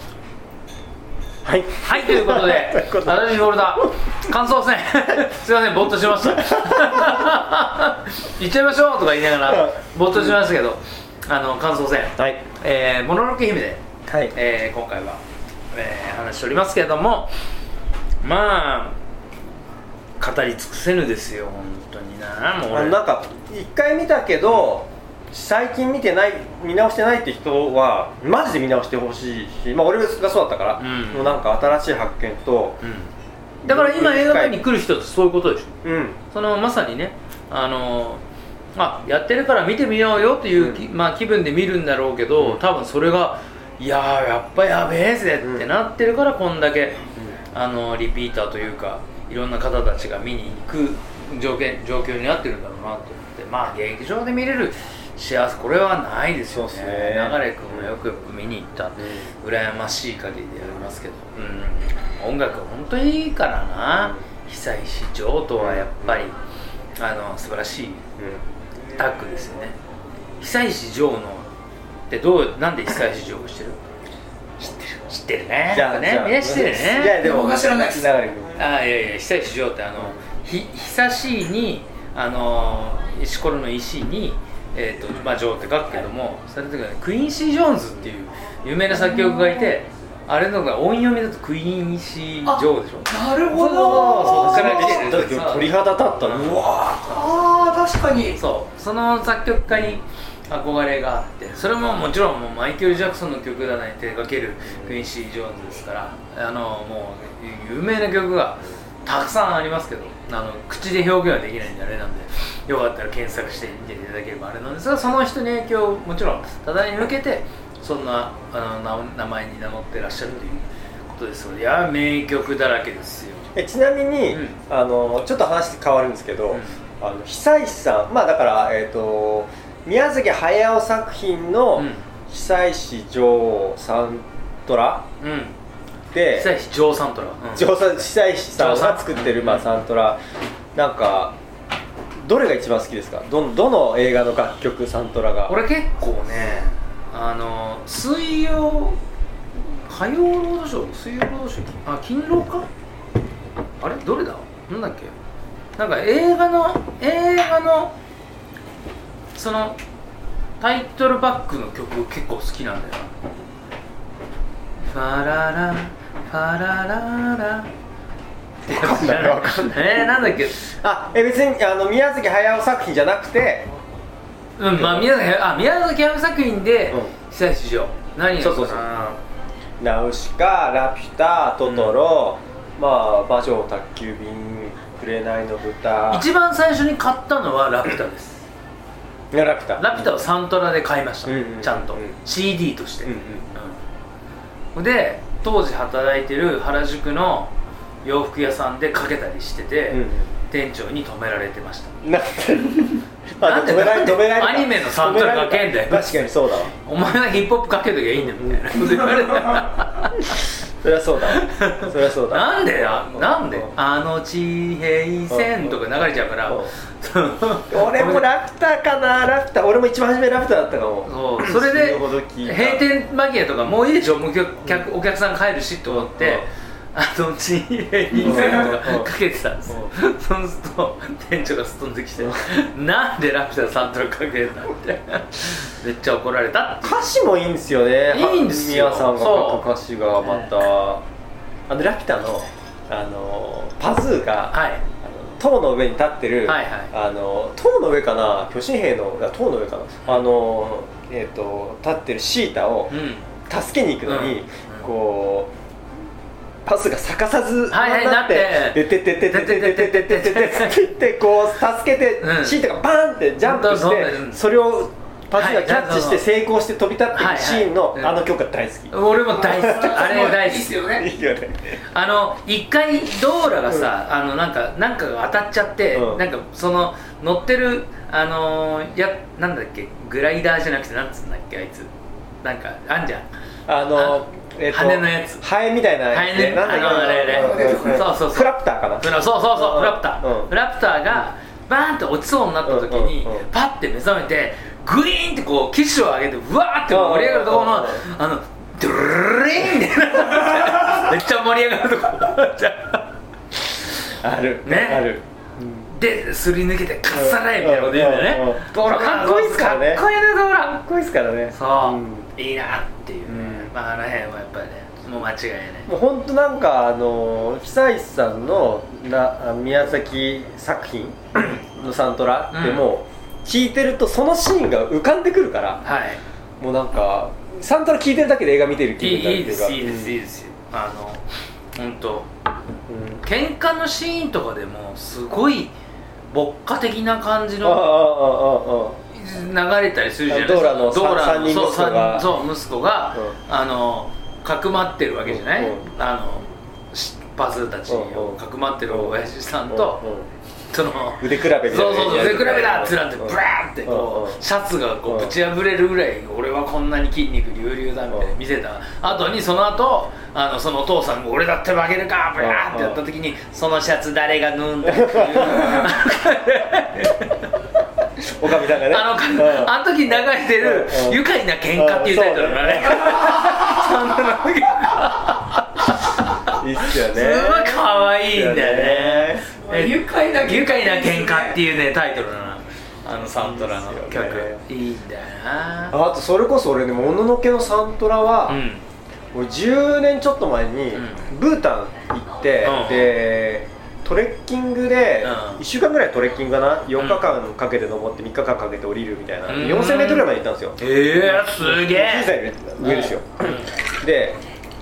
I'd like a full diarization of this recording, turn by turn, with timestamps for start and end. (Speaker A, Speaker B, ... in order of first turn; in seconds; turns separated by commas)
Speaker A: 1.4-3.9, Speaker B: 1.9-15.2, Speaker A: 6.2-7.3, Speaker A: 9.5-10.4, Speaker A: 12.2-12.4, Speaker A: 14.1-14.3, Speaker B: 15.7-17.3, Speaker B: 18.2-19.0, Speaker B: 20.2-23.0, Speaker A: 22.7-32.8, Speaker B: 30.8-31.4, Speaker B: 32.8-33.1, Speaker A: 33.6-34.6, Speaker B: 33.7-35.8, Speaker A: 35.8-36.2, Speaker B: 36.3-38.2, Speaker B: 38.8-66.3, Speaker A: 40.6-40.8, Speaker A: 45.4-45.7, Speaker A: 56.5-57.9, Speaker A: 59.0-59.3, Speaker A: 63.9-64.2, Speaker A: 65.6-66.2, Speaker B: 67.0-68.0, Speaker A: 68.2-68.4, Speaker B: 69.0-69.8, Speaker B: 70.4-71.5, Speaker B: 72.1-73.8, Speaker B: 74.6-77.2, Speaker A: 75.7-78.6, Speaker C: 77.2-78.1, Speaker B: 78.6-96.7, Speaker C: 89.0-89.7, Speaker C: 92.5-94.8, Speaker A: 93.5-97.2, Speaker C: 97.0-98.4, Speaker B: 98.4-123.5, Speaker A: 99.7-100.0, Speaker A: 104.7-105.0, Speaker A: 123.5-135.1, Speaker B: 124.3-124.6, Speaker B: 126.5-126.8, Speaker B: 131.8-132.0, Speaker B: 135.2-135.6, Speaker A: 136.1-136.5, Speaker B: 136.3-137.7, Speaker A: 137.5-140.2, Speaker B: 138.6-139.8, Speaker A: 140.8-141.4, Speaker A: 142.2-145.6, Speaker B: 145.5-149.0, Speaker B: 149.8-152.7, Speaker B: 153.8-155.1, Speaker B: 155.8-157.9, Speaker B: 159.3-159.8, Speaker B: 160.6-163.2, Speaker B: 164.9-167.7, Speaker A: 168.7-173.7, Speaker B: 168.7-170.7, Speaker B: 174.6-179.2, Speaker A: 174.7-175.1, Speaker A: 178.4-179.1, Speaker A: 179.8-186.3, Speaker B: 181.7-182.0, Speaker B: 186.1-188.5, Speaker A: 189.3-190.2, Speaker B: 189.8-193.8, Speaker A: 191.2-192.2, Speaker A: 193.0-193.5, Speaker B: 194.8-197.5, Speaker B: 198.0-202.0, Speaker A: 199.9-200.3, Speaker A: 202.0-206.7, Speaker B: 203.4-210.5, Speaker A: 208.2-208.8, Speaker A: 210.8-213.7, Speaker B: 211.3-218.2, Speaker A: 215.3-215.8, Speaker A: 216.5-216.7, Speaker A: 217.7-222.8, Speaker B: 221.1-237.1, Speaker A: 225.9-226.5, Speaker A: 228.2-229.1, Speaker A: 236.8-241.1, Speaker B: 238.1-239.7, Speaker B: 240.2-240.6, Speaker A: 241.7-252.9, Speaker B: 244.5-244.8, Speaker B: 246.5-246.9, Speaker B: 252.9-253.3, Speaker A: 253.5-255.5, Speaker B: 254.1-254.9, Speaker A: 256.7-270.0, Speaker B: 257.7-260.9, Speaker B: 262.2-262.6, Speaker B: 263.4-264.4, Speaker B: 265.4-266.2, Speaker B: 267.1-268.2, Speaker B: 268.9-270.8, Speaker C: 269.4-271.1, Speaker A: 270.9-271.8, Speaker B: 271.9-281.9, Speaker A: 275.9-276.2, Speaker B: 282.4-283.3, Speaker A: 283.7-290.5, Speaker B: 283.9-285.4, Speaker B: 286.1-303.1, Speaker C: 286.7-288.0, Speaker A: 292.6-293.5, Speaker A: 296.9-298.0, Speaker A: 304.1-305.9, Speaker B: 304.6-305.1, Speaker B: 305.9-310.8, Speaker A: 307.1-310.0, Speaker A: 310.8-312.3, Speaker B: 311.5-315.9, Speaker A: 313.3-313.7, Speaker A: 315.9-325.9, Speaker B: 322.5-322.9, Speaker B: 325.8-326.2, Speaker A: 326.6-330.2, Speaker B: 329.0-331.2, Speaker B: 331.8-332.3, Speaker A: 332.9-333.2, Speaker B: 333.2-335.7, Speaker B: 336.3-337.9, Speaker A: 337.6-339.0, Speaker B: 339.1-350.0, Speaker A: 340.3-342.3, Speaker A: 345.2-345.9, Speaker A: 347.9-350.3, Speaker B: 350.7-367.5, Speaker A: 351.2-354.4, Speaker A: 355.1-355.4, Speaker A: 362.4-363.0, Speaker A: 364.9-365.8, Speaker A: 368.4-373.6, Speaker B: 368.6-386.0, Speaker A: 376.5-379.5, Speaker C: 379.7-381.6, Speaker A: 383.4-384.6, Speaker A: 385.9-388.6, Speaker B: 388.5-388.8, Speaker A: 389.3-404.4, Speaker B: 390.9-391.3, Speaker B: 392.6-393.1, Speaker B: 395.2-395.6, Speaker B: 397.0-397.3, Speaker B: 399.5-400.3, Speaker B: 400.8-403.7